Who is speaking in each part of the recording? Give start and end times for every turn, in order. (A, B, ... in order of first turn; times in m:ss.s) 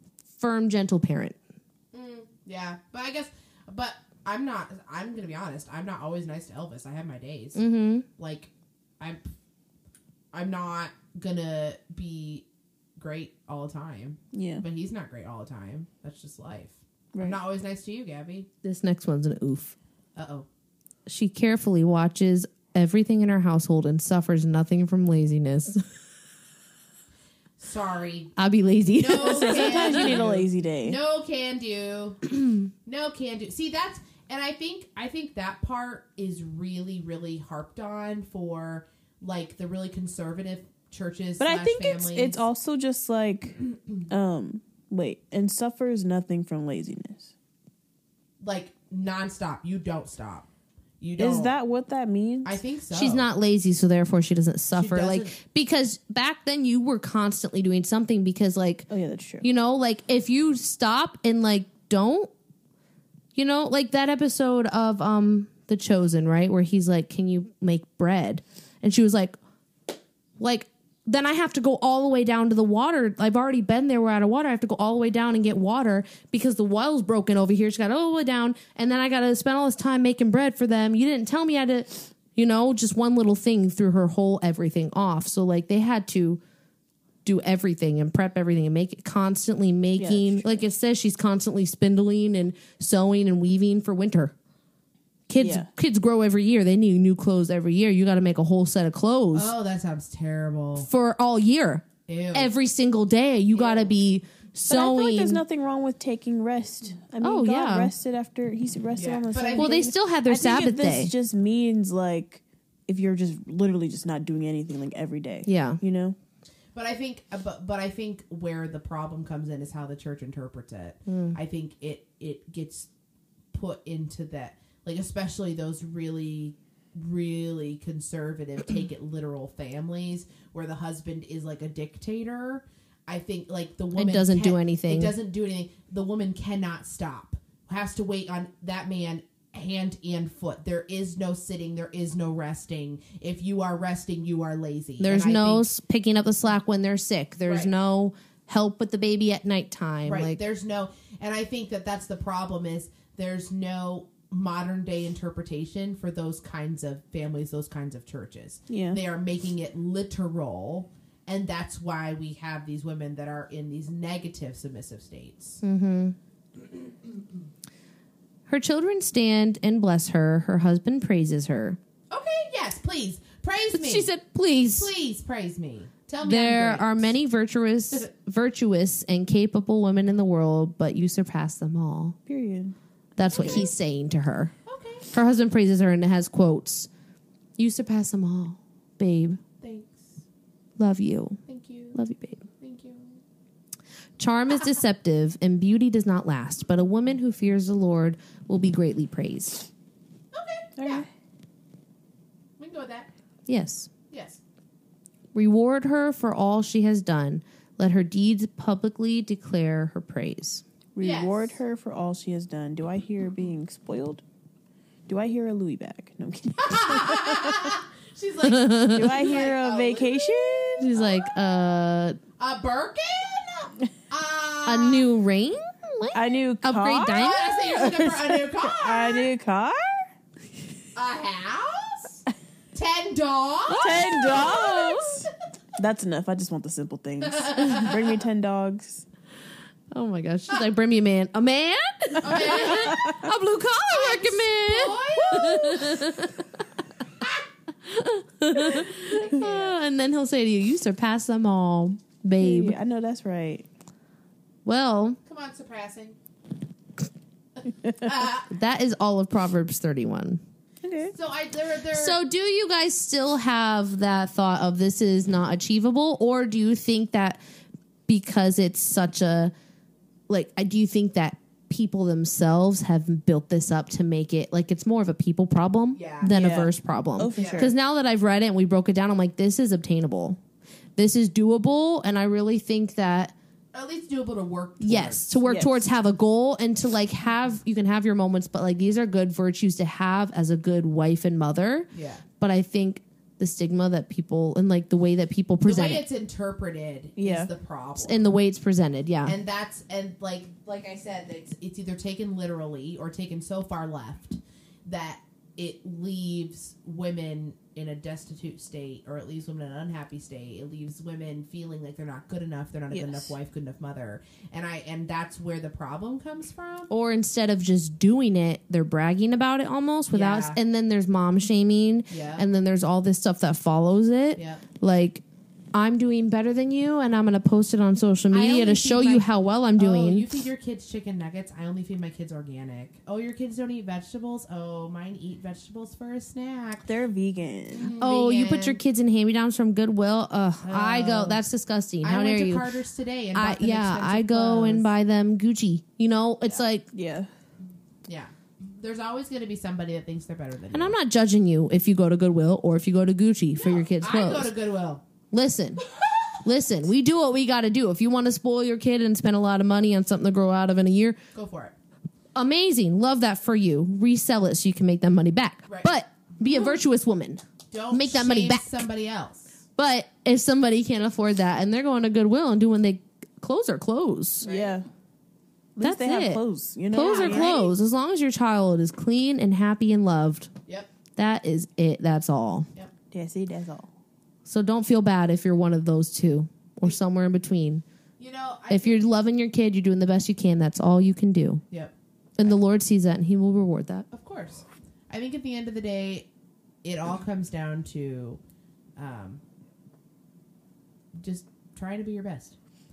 0:00.4-0:01.4 A
0:01.9-0:07.6 B
0:07.6-0:08.0 A
0:08.2-0:09.2 B
0:10.3-0:12.4 B
0:13.0-0:18.5 B
0:14.3-0:14.6 C
0:17.1-0:17.4 C
0:18.6-0:19.7 A
0:20.2-0:20.4 B
0:21.1-0:25.8 A
0:27.6-0:28.3 B
0:28.4-0:30.2 A
0:28.9-0:32.2 B
0:29.2-0:31.0 C
0:32.3-0:32.6 A
0:32.9-0:42.4 B
0:41.4-0:47.3 C
0:48.4-0:50.5 B
0:51.0-0:51.5 B
0:51.2-0:52.6 C
0:52.4-0:53.3 B
0:52.9-0:58.9 A
0:54.7-0:55.3 B
0:58.9-0:59.4 C
0:59.4-1:02.3 A
1:03.3-1:09.4 A
1:10.4-1:26.4 A
1:27.2-1:34.3 A
1:30.0-1:30.6 C
1:35.3-1:39.5 A
1:35.4-1:35.7 C
1:39.3-1:40.9 B
1:40.8-1:45.4 A
1:42.1-1:42.5 B
1:43.6-1:43.9 B
1:44.7-1:56.2 C
1:47.2-1:47.9 A
1:49.0-1:49.8 B
1:49.6-1:51.1 A
1:55.4-1:55.8 A
1:56.7-2:02.9 B
2:01.0-2:01.4 A
2:03.5-2:25.7 B
2:14.0-2:15.1 A
2:25.0-2:30.4 A
2:30.0-2:45.6 B
2:38.7-2:39.0 C
2:45.6-2:46.2 A
2:48.5-2:51.8 A
2:52.1-2:54.1 B
2:53.7-2:54.9 A
2:54.7-2:57.1 B
2:56.2-3:02.2 A
3:02.3-3:02.7 C
3:03.2-3:04.5 A
3:03.3-3:03.7 B
3:03.4-3:03.6 C
3:04.6-3:05.1 B
3:05.1-3:06.9 A
3:07.6-3:09.4 A
3:09.6-3:10.2 B
3:10.8-3:11.4 A
3:11.5-3:12.0 B
3:11.9-3:12.4 A
3:12.6-3:13.2 B
3:14.2-3:19.7 A
3:20.3-3:21.1 B
3:20.8-3:21.1 C
3:22.6-3:23.1 B
3:23.5-3:23.9 A
3:24.1-3:24.4 B
3:25.3-3:30.6 A
3:31.0-3:34.2 C
3:31.0-3:31.6 B
3:35.1-3:37.8 C
3:36.6-3:41.1 B
3:38.4-3:39.2 A
3:38.9-3:40.9 C
3:40.8-3:42.2 A
3:42.4-3:45.1 B
3:44.6-3:47.5 A
3:46.1-3:50.1 C
3:47.1-3:49.3 B
3:51.0-3:54.6 B
3:53.7-3:55.2 A
3:53.8-3:59.0 C
3:57.3-3:58.0 B
3:59.9-4:06.5 A
4:02.2-4:03.1 B
4:02.8-4:03.1 C
4:03.9-4:06.0 B
4:07.8-4:12.8 A
4:08.6-4:09.8 B
4:12.4-4:13.7 C
4:14.6-4:15.2 A
4:15.3-4:16.2 B
4:17.9-4:18.5 B
4:18.5-4:20.4 A
4:20.8-4:21.1 C
4:21.1-4:22.2 B
4:21.9-4:27.4 A
4:28.1-4:29.5 A
4:30.3-4:40.4 A
4:36.0-4:36.3 B
4:36.3-4:37.7 C
4:37.3-4:37.7 B
4:41.0-4:43.3 A
4:43.7-4:45.3 B
4:44.8-4:51.9 A
4:45.5-4:45.8 C
4:51.9-4:52.2 B
4:52.4-4:56.0 A
4:55.6-4:58.2 B
4:57.2-4:57.5 C
4:58.0-4:59.4 A
4:59.2-5:16.9 B
5:12.9-5:13.3 C
5:16.9-5:30.3 A
5:20.1-5:20.6 B
5:22.1-5:22.4 B
5:24.4-5:24.6 B
5:28.3-5:36.9 B
5:36.9-5:37.9 C
5:37.7-5:38.8 B
5:38.0-5:42.7 A
5:40.6-5:41.4 B
5:42.0-5:44.9 B
5:43.3-5:46.9 A
5:46.9-5:47.3 C
5:48.0-5:51.0 B
5:50.7-5:54.5 A
5:53.6-5:55.0 B
5:55.3-5:55.8 A
5:56.4-6:01.2 A
6:01.3-6:01.7 B
6:02.3-6:08.7 A
6:06.4-6:06.8 B
6:07.7-6:09.5 B
6:09.8-6:14.5 A
6:14.4-6:14.7 B
6:14.4-6:14.8 C
6:15.8-6:17.5 C
6:15.8-6:20.5 A
6:17.0-6:17.7 B
6:21.2-6:22.7 A
6:23.1-6:23.9 C
6:24.4-6:27.8 A
6:28.2-6:29.0 B
6:28.7-6:31.6 A
6:32.4-6:34.0 A
6:34.1-6:36.3 B
6:36.8-6:38.4 B
6:39.0-6:39.4 B
6:41.2-6:42.6 B